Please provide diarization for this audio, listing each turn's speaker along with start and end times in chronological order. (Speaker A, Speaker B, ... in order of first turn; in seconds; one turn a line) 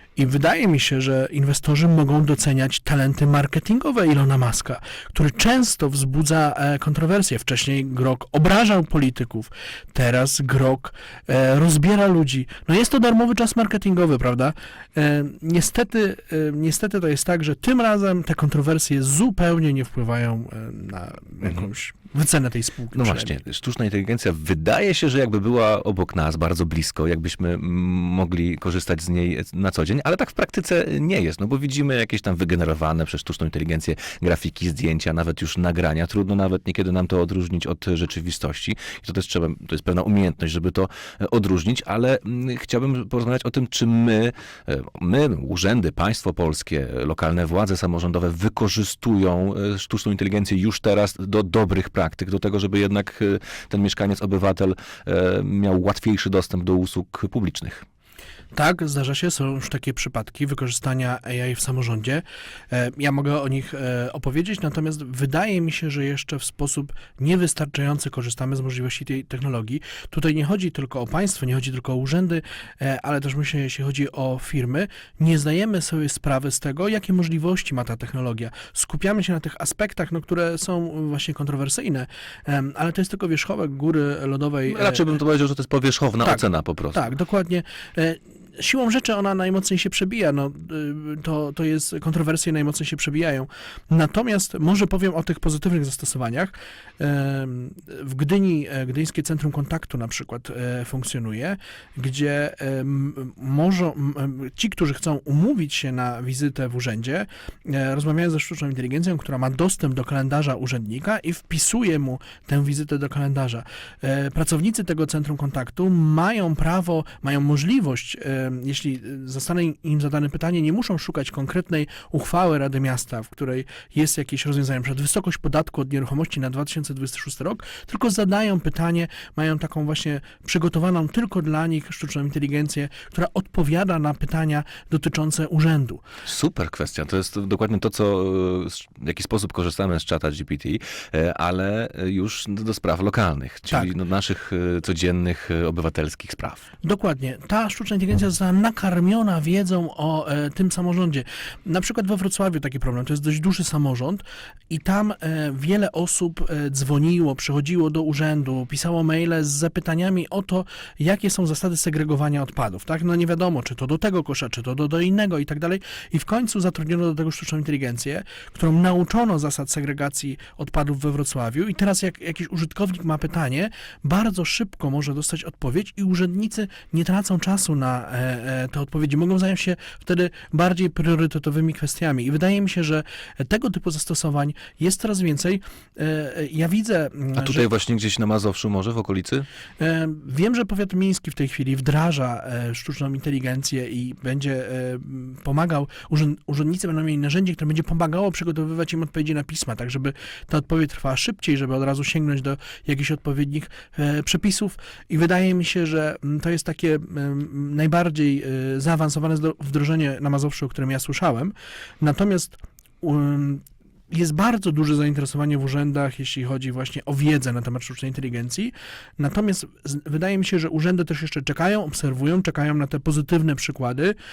Speaker A: 0.2-23.4
Speaker B: 22.9-57.8
Speaker A: 58.5-85.1
Speaker B: 84.7-87.1
Speaker A: 86.2-136.0
Speaker B: 136.2-146.7
Speaker A: 146.8-187.7
Speaker B: 187.3-189.5
Speaker A: 189.8-224.2